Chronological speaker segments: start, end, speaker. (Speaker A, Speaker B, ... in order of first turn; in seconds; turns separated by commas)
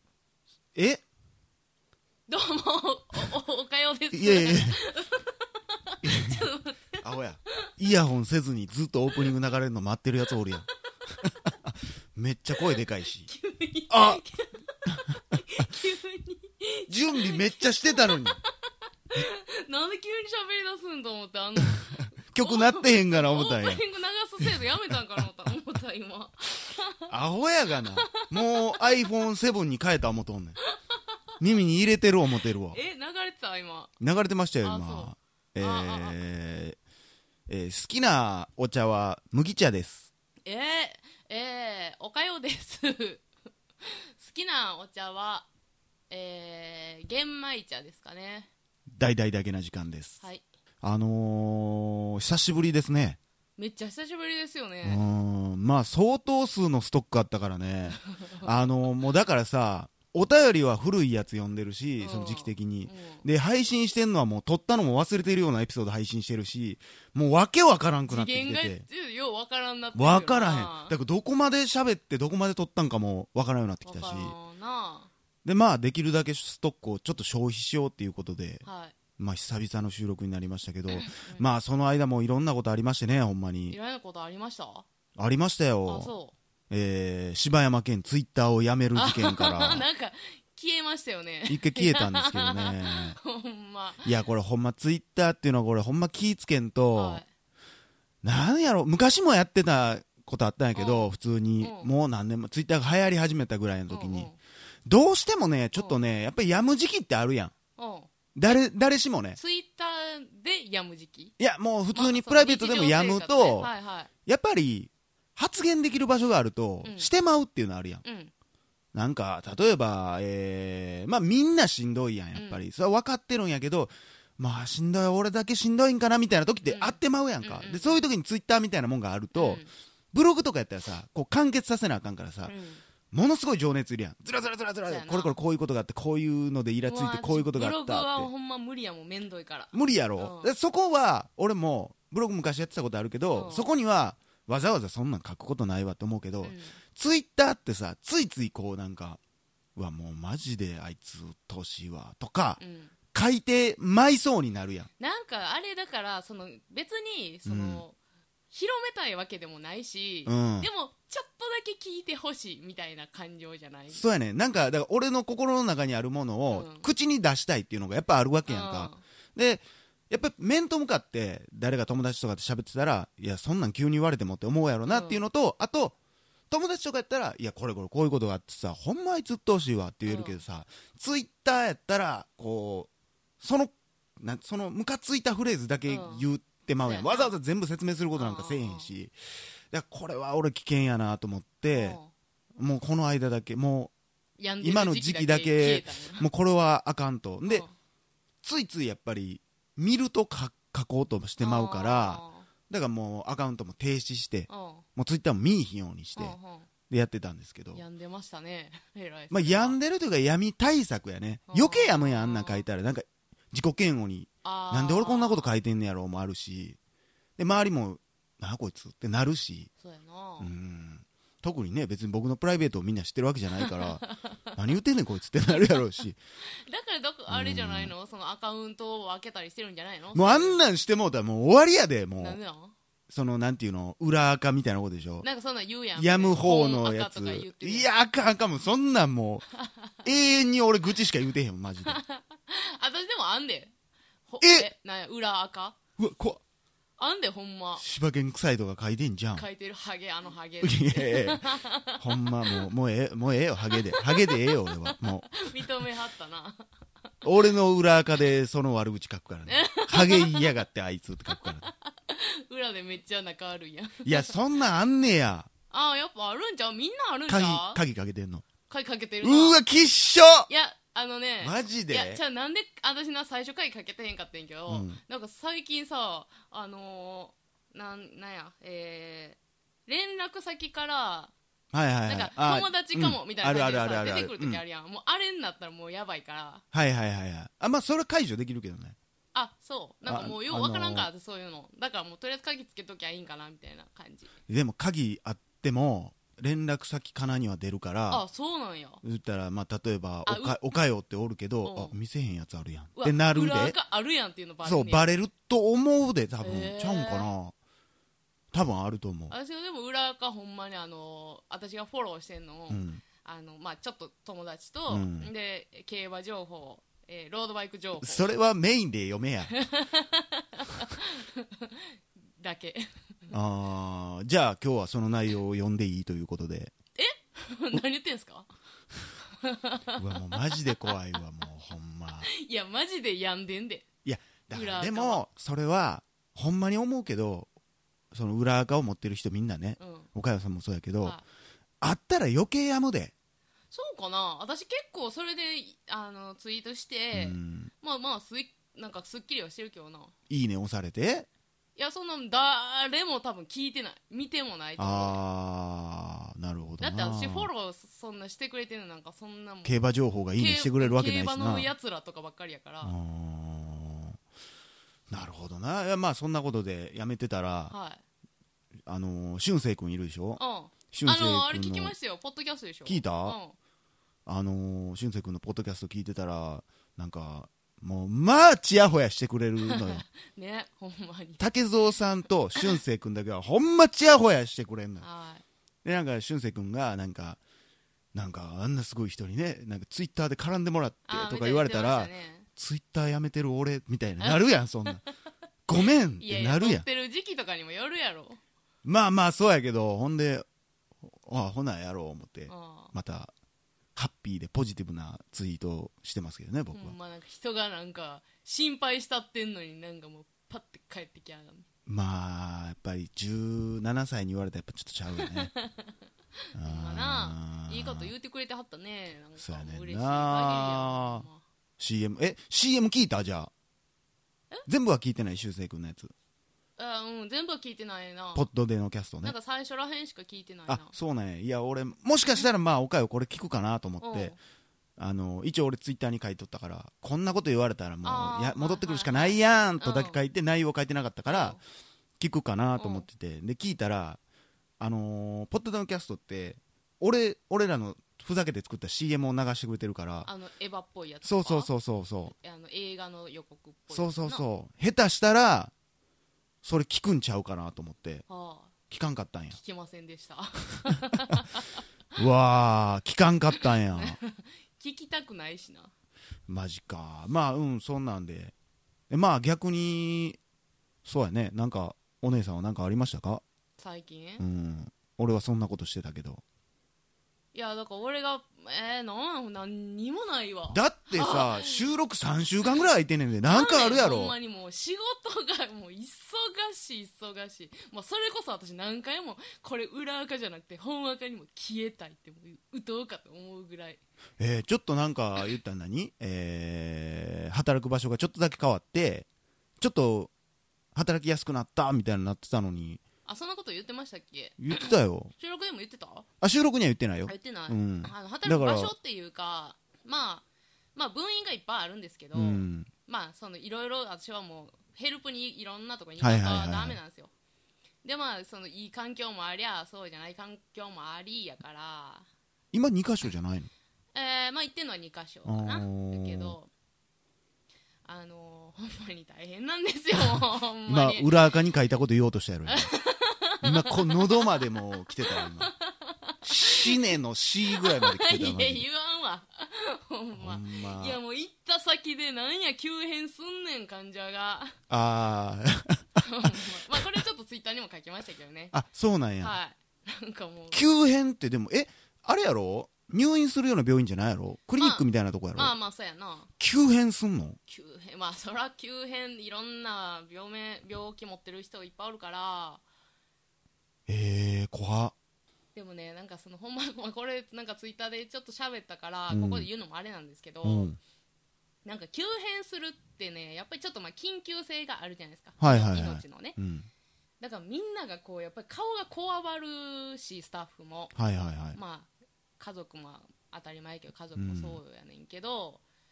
Speaker A: 0.7-1.0, Speaker B: 2.3-7.0, Speaker A: 4.1-4.8, Speaker A: 6.0-6.5, Speaker A: 7.0-10.7, Speaker A: 11.6-13.3, Speaker B: 13.3-18.5, Speaker A: 13.9-14.2, Speaker A: 16.9-18.4, Speaker B: 19.1-27.1, Speaker A: 22.3-23.8, Speaker A: 27.1-30.6, Speaker B: 28.1-29.1, Speaker A: 31.4-32.8, Speaker B: 32.7-33.9, Speaker A: 34.0-36.8, Speaker B: 34.6-36.2, Speaker A: 37.5-40.1, Speaker B: 40.4-43.2, Speaker B: 43.8-45.5, Speaker B: 46.1-48.5, Speaker A: 48.9-50.2, Speaker B: 50.2-50.4, Speaker A: 50.8-53.2, Speaker B: 53.6-55.0, Speaker A: 54.8-68.8, Speaker B: 58.0-58.6, Speaker B: 62.0-63.2, Speaker B: 68.1-71.0, Speaker A: 69.9-74.3, Speaker B: 73.8-75.1, Speaker A: 75.4-78.6, Speaker B: 78.6-78.9, Speaker A: 79.2-83.8, Speaker B: 80.9-81.4, Speaker B: 83.7-84.8, Speaker A: 85.2-86.1, Speaker B: 85.8-86.3, Speaker A: 86.7-89.9, Speaker B: 89.0-94.0, Speaker A: 91.5-93.2, Speaker A: 94.0-97.2, Speaker B: 96.9-97.3, Speaker A: 98.2-104.3, Speaker B: 100.7-101.9, Speaker B: 103.9-104.4, Speaker A: 104.8-107.5, Speaker B: 107.8-108.1, Speaker A: 108.3-109.4, Speaker B: 109.3-111.3, Speaker A: 111.4-113.7, Speaker B: 111.9-114.1, Speaker A: 114.2-118.0, Speaker B: 116.8-117.1, Speaker B: 118.0-118.3, Speaker A: 118.9-132.5, Speaker B: 122.3-122.6, Speaker B: 126.6-128.1, Speaker B: 129.3-129.7, Speaker B: 132.5-132.8, Speaker A: 133.1-138.3, Speaker B: 134.9-135.3, Speaker B: 136.8-140.5, Speaker A: 139.7-149.2, Speaker B: 143.3-143.7, Speaker B: 146.4-146.8, Speaker A: 149.8-152.6, Speaker B: 152.6-152.9, Speaker A: 153.1-154.9, Speaker B: 155.0-158.0, Speaker A: 157.4-157.8, Speaker B: 158.5-164.0, Speaker A: 160.2-160.7, Speaker A: 163.9-175.9, Speaker B: 166.5-166.8, Speaker B: 168.5-169.0, Speaker B: 174.8-175.2, Speaker A: 176.5-182.9, Speaker B: 180.1-180.4, Speaker A: 183.4-189.2, Speaker B: 185.9-186.3, Speaker B: 186.8-187.3, Speaker B: 188.2-188.9, Speaker A: 189.7-192.0, Speaker B: 191.7-192.1, Speaker A: 192.6-193.9, Speaker B: 194.4-196.2, Speaker A: 194.6-197.7, Speaker B: 197.4-197.7, Speaker A: 198.4-206.3, Speaker B: 201.4-202.5, Speaker B: 204.5-204.8, Speaker B: 206.2-206.7, Speaker A: 206.9-207.8, Speaker B: 207.7-209.8, Speaker A: 209.3-216.8, Speaker B: 211.5-212.6, Speaker B: 214.4-215.5, Speaker A: 217.4-219.7, Speaker B: 219.8-220.5, Speaker A: 220.4-226.2, Speaker B: 223.6-224.3, Speaker B: 226.6-230.6, Speaker A: 227.3-227.9, Speaker A: 230.1-232.4, Speaker B: 232.2-232.7, Speaker A: 233.1-235.2, Speaker B: 235.2-237.9, Speaker A: 235.9-239.5, Speaker A: 240.0-242.0, Speaker B: 241.8-243.7, Speaker B: 244.3-245.8, Speaker A: 244.4-244.7, Speaker A: 246.0-246.4, Speaker B: 247.0-247.8, Speaker A: 247.8-249.5, Speaker B: 249.3-252.7, Speaker A: 250.6-251.4, Speaker A: 252.0-255.4, Speaker B: 253.8-256.6, Speaker A: 257.2-261.7, Speaker B: 259.5-260.5, Speaker B: 261.3-264.3, Speaker A: 264.0-265.5, Speaker B: 265.7-267.8, Speaker A: 267.3-268.5, Speaker B: 268.7-269.6, Speaker A: 269.2-270.5, Speaker B: 270.5-281.3, Speaker A: 271.4-272.2, Speaker A: 274.7-275.0, Speaker A: 281.7-284.6, Speaker B: 282.1-286.6, Speaker A: 286.7-289.0, Speaker B: 289.3-294.3, Speaker A: 290.1-291.1, Speaker A: 294.5-298.2, Speaker B: 298.1-299.0, Speaker A: 299.0-303.8, Speaker B: 300.2-300.6, Speaker B: 301.6-301.9, Speaker B: 302.9-305.1, Speaker A: 304.6-307.5, Speaker B: 306.4-307.3, Speaker A: 308.5-309.3, Speaker B: 309.3-318.2, Speaker A: 312.7-313.0, Speaker A: 314.9-315.3, Speaker A: 318.0-319.5, Speaker B: 319.5-323.3, Speaker A: 323.3-326.7, Speaker B: 327.0-328.5, Speaker B: 329.4-330.9, Speaker A: 329.9-332.3, Speaker B: 332.2-333.9, Speaker A: 334.0-337.5, Speaker B: 334.5-335.2, Speaker A: 338.1-341.2, Speaker B: 339.8-340.1, Speaker A: 341.8-343.1, Speaker B: 343.7-350.1, Speaker A: 347.1-347.7, Speaker A: 350.3-351.3, Speaker B: 351.8-355.2, Speaker A: 354.8-357.5, Speaker B: 356.8-359.8, Speaker A: 359.6-361.7, Speaker B: 360.4-362.9, Speaker A: 362.8-364.2, Speaker A: 365.1-367.7, Speaker B: 367.7-368.0, Speaker A: 368.9-371.9, Speaker B: 370.4-373.6, Speaker A: 372.9-373.4, Speaker A: 374.2-380.0, Speaker B: 379.6-381.5, Speaker A: 381.4-385.1, Speaker B: 385.0-385.4, Speaker A: 385.8-387.4, Speaker A: 388.1-395.0, Speaker B: 391.1-392.5, Speaker B: 394.2-394.6, Speaker A: 395.7-396.9, Speaker B: 395.8-398.4, Speaker A: 398.8-400.4, Speaker A: 401.2-403.3, Speaker B: 402.5-402.9, Speaker A: 403.9-406.9, Speaker B: 406.7-411.6, Speaker A: 411.9-415.5, Speaker B: 415.2-415.9, Speaker A: 416.5-418.1, Speaker B: 416.6-421.4, Speaker A: 419.4-421.2, Speaker A: 421.8-423.5, Speaker A: 424.7-426.1, Speaker B: 426.8-428.5, Speaker A: 428.3-429.3, Speaker B: 429.2-430.9, Speaker A: 430.7-434.4, Speaker B: 434.0-434.4, Speaker A: 435.0-441.6, Speaker B: 438.0-440.2, Speaker B: 441.3-441.6, Speaker A: 442.2-444.2, Speaker B: 442.8-443.1, Speaker A: 444.8-450.3, Speaker B: 450.2-451.7, Speaker A: 451.2-452.3, Speaker B: 452.3-454.4, Speaker A: 453.9-455.7, Speaker A: 456.6-458.2, Speaker B: 458.3-458.7, Speaker A: 458.9-459.6, Speaker B: 459.5-461.8, Speaker A: 462.2-464.2, Speaker B: 463.6-465.9, Speaker A: 466.5-468.5, Speaker A: 469.1-470.4, Speaker A: 471.0-473.4, Speaker B: 473.8-474.4, Speaker A: 474.4-476.4, Speaker B: 477.5-481.9, Speaker A: 480.7-484.4, Speaker B: 483.4-494.0, Speaker A: 494.4-499.3, Speaker A: 499.8-500.3, Speaker A: 500.9-503.0, Speaker B: 503.2-506.2, Speaker A: 504.6-505.3, Speaker A: 506.4-508.9, Speaker B: 507.3-517.3, Speaker A: 512.3-512.9, Speaker A: 516.2-517.0, Speaker B: 518.0-522.3, Speaker A: 522.7-523.7, Speaker B: 524.1-526.7, Speaker A: 525.5-526.6, Speaker B: 528.0-531.3, Speaker A: 530.9-532.9, Speaker B: 532.7-537.0, Speaker A: 533.6-535.7, Speaker A: 536.4-538.8, Speaker B: 537.7-544.8, Speaker A: 540.4-541.2, Speaker A: 544.9-546.5, Speaker B: 546.2-548.7, Speaker A: 548.7-549.5, Speaker B: 549.4-550.8, Speaker A: 550.7-555.7, Speaker B: 554.8-556.5, Speaker A: 556.6-557.6, Speaker B: 557.7-562.8, Speaker A: 564.1-565.1, Speaker B: 565.7-570.9, Speaker A: 569.3-569.7, Speaker A: 570.6-571.0, Speaker B: 571.8-576.5, Speaker A: 575.6-576.9, Speaker B: 577.4-581.1, Speaker A: 581.1-581.8, Speaker B: 581.7-585.8, Speaker A: 584.4-584.8